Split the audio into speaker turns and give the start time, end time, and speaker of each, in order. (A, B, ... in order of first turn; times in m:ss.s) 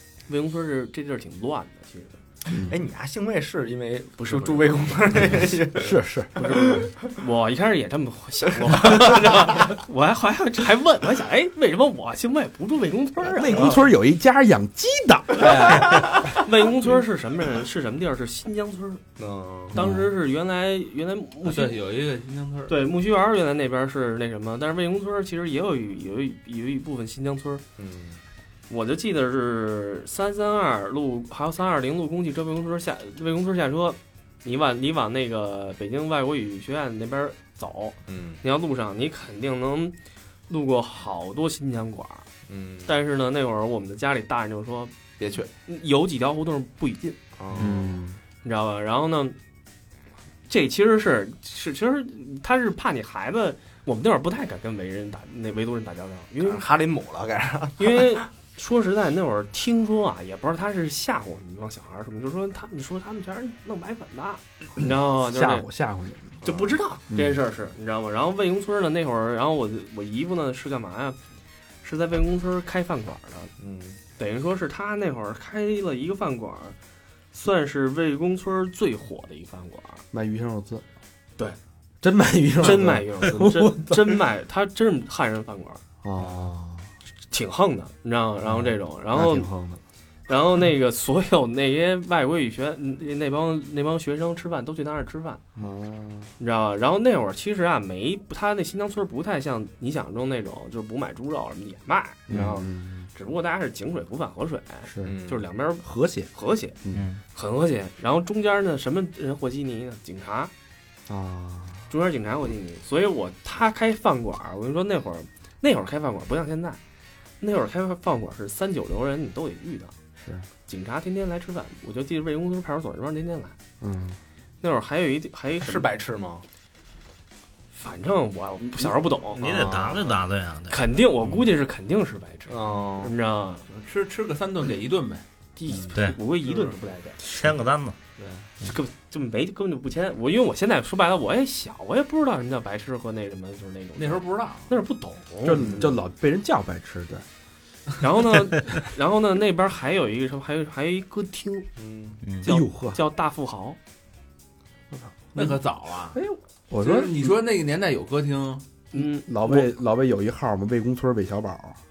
0:00.3-0:02.2 A
0:02.5-0:02.8 B
0:02.6-0:07.1 C
0:04.2-0:05.3 A
0:05.8-0:06.9 B
0:06.4-0:13.9 A
0:08.8-0:09.2 C
0:13.2-0:16.1 B
0:15.4-0:15.9 D
0:15.8-0:19.0 A
0:19.2-0:19.7 C
0:19.7-0:20.1 B
0:19.7-0:21.8 A
0:21.4-0:22.7 D
0:22.7-0:27.6 A
0:27.8-0:28.2 C
0:28.7-0:40.0 A
0:38.1-0:38.4 C
0:40.5-0:42.2 A
0:42.5-0:42.9 C
0:42.9-0:44.9 A
0:45.2-0:45.5 C
0:45.6-0:47.2 A
0:47.4-0:48.0 C
0:47.6-0:48.2 B
0:48.4-0:49.4 A
0:50.5-0:56.6 A
0:56.4-0:58.2 C
0:57.8-1:05.7 A
1:04.8-1:06.4 B
1:06.4-1:11.2 A
1:06.4-1:06.8 C
1:07.1-1:07.4 B
1:11.8-1:13.5 A
1:13.6-1:14.0 C
1:14.2-1:16.8 A
1:17.3-1:20.0 A
1:20.1-1:20.8 B
1:22.0-1:24.2 B
1:22.6-1:25.8 A
1:26.0-1:26.9 B
1:27.3-1:29.5 A
1:28.5-1:29.8 B
1:30.3-1:35.4 A
1:35.6-1:36.3 B
1:36.4-1:46.8 A
1:42.3-1:43.1 B
1:44.8-1:45.2 B
1:45.0-1:45.4 C
1:45.8-1:46.3 B
1:46.9-1:47.2 E
1:47.3-1:50.5 A
1:51.1-1:51.9 B
1:51.9-1:56.8 A
1:57.4-1:59.9 A
2:00.2-2:00.5 B
2:00.7-2:03.5 A
2:03.8-2:04.2 B
2:04.6-2:05.9 A
2:05.6-2:06.4 C
2:07.7-2:09.6 A
2:09.4-2:10.2 C
2:09.4-2:11.4 E
2:10.7-2:13.6 A
2:12.5-2:13.1 C
2:13.7-2:15.2 D
2:15.6-2:17.2 A
2:15.9-2:16.2 E
2:17.2-2:18.0 E
2:18.2-2:18.5 D
2:18.6-2:25.9 A
2:24.0-2:24.7 D
2:25.4-2:27.2 B
2:28.0-2:31.7 A
2:31.8-2:32.2 C
2:32.4-2:33.0 B
2:32.4-2:33.8 A
2:34.9-2:35.6 B
2:35.3-2:36.2 D
2:36.1-2:37.3 B
2:36.8-2:38.6 D
2:38.9-2:39.7 A
2:38.9-2:41.8 B